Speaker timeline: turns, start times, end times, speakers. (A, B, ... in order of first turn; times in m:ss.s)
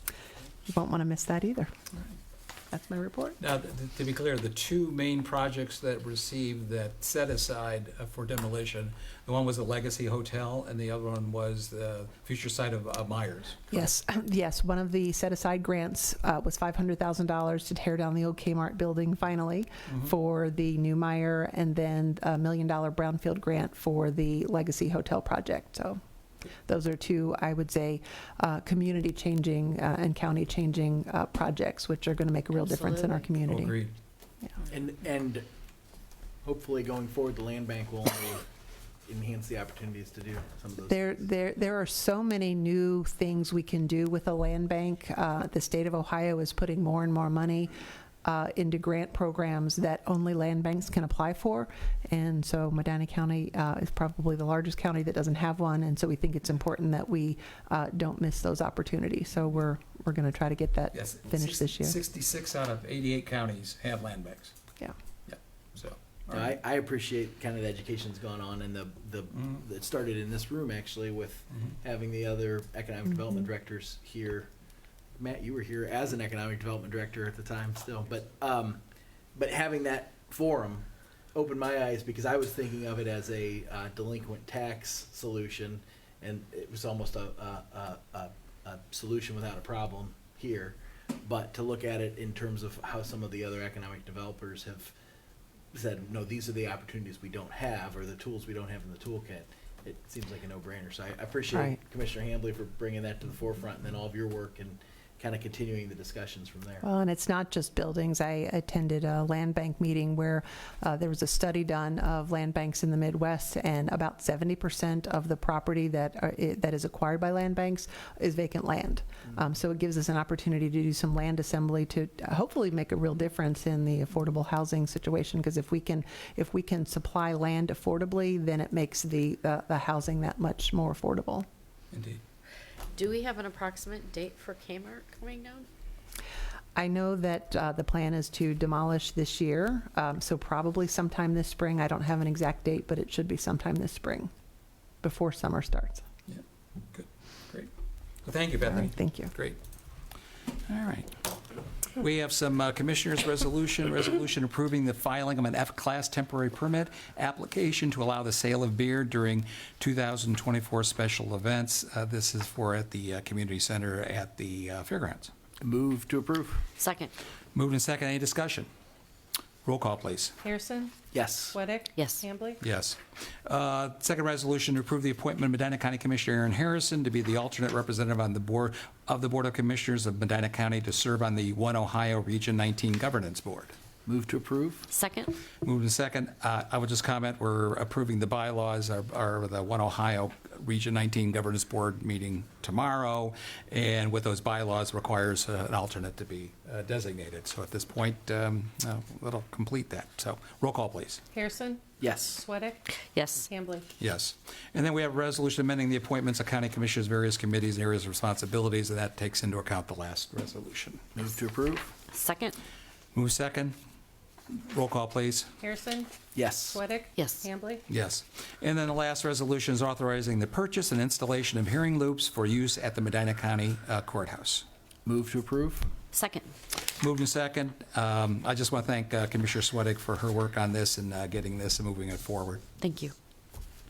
0:00.6-0:01.7 A
0:02.7-0:03.4 A
0:03.4-0:13.9 B
0:13.7-0:26.0 A
0:26.6-0:33.8 A
0:32.5-0:33.3 C
0:33.5-0:33.9 B
0:34.7-0:35.4 D
0:36.4-0:38.4 D
0:39.0-0:41.2 D
0:40.9-0:47.7 A
0:48.2-1:02.0 A
1:00.9-1:04.5 B
1:05.2-1:06.6 B
1:06.3-1:14.5 D
1:15.2-1:18.8 D
1:19.3-1:34.9 D
1:35.7-1:46.8 D
1:41.5-1:41.8 A
1:46.8-2:11.5 A
2:11.9-2:12.2 B
2:12.9-2:15.7 C
2:16.8-2:24.3 A
2:25.0-2:26.0 A
2:26.3-2:27.7 B
2:28.2-2:29.6 B
2:28.7-2:29.3 A
2:30.7-2:31.2 B
2:32.0-2:45.3 B
2:45.6-2:46.6 D
2:46.8-2:47.1 C
2:47.5-2:48.7 B
2:49.6-2:50.4 B
2:50.4-2:50.9 E
2:51.1-2:51.6 D
2:51.5-2:52.6 E
2:52.0-2:52.2 C
2:52.6-3:03.7 B
3:04.0-3:04.9 D
3:04.9-3:05.4 C
3:05.6-3:21.2 B
3:21.3-3:22.8 E
3:22.0-3:22.4 D
3:23.1-3:23.5 C
3:23.4-3:23.9 E
3:24.0-3:31.0 B
3:31.1-3:31.9 D
3:32.1-3:32.6 C
3:33.1-3:33.8 B
3:34.5-3:35.5 B
3:35.6-3:36.1 E
3:36.3-3:36.8 D
3:36.7-3:37.8 E
3:37.2-3:37.4 C
3:37.9-3:44.6 B
3:45.0-3:45.9 D
3:46.1-3:46.5 C
3:47.0-3:52.6 B
3:52.8-3:53.1 C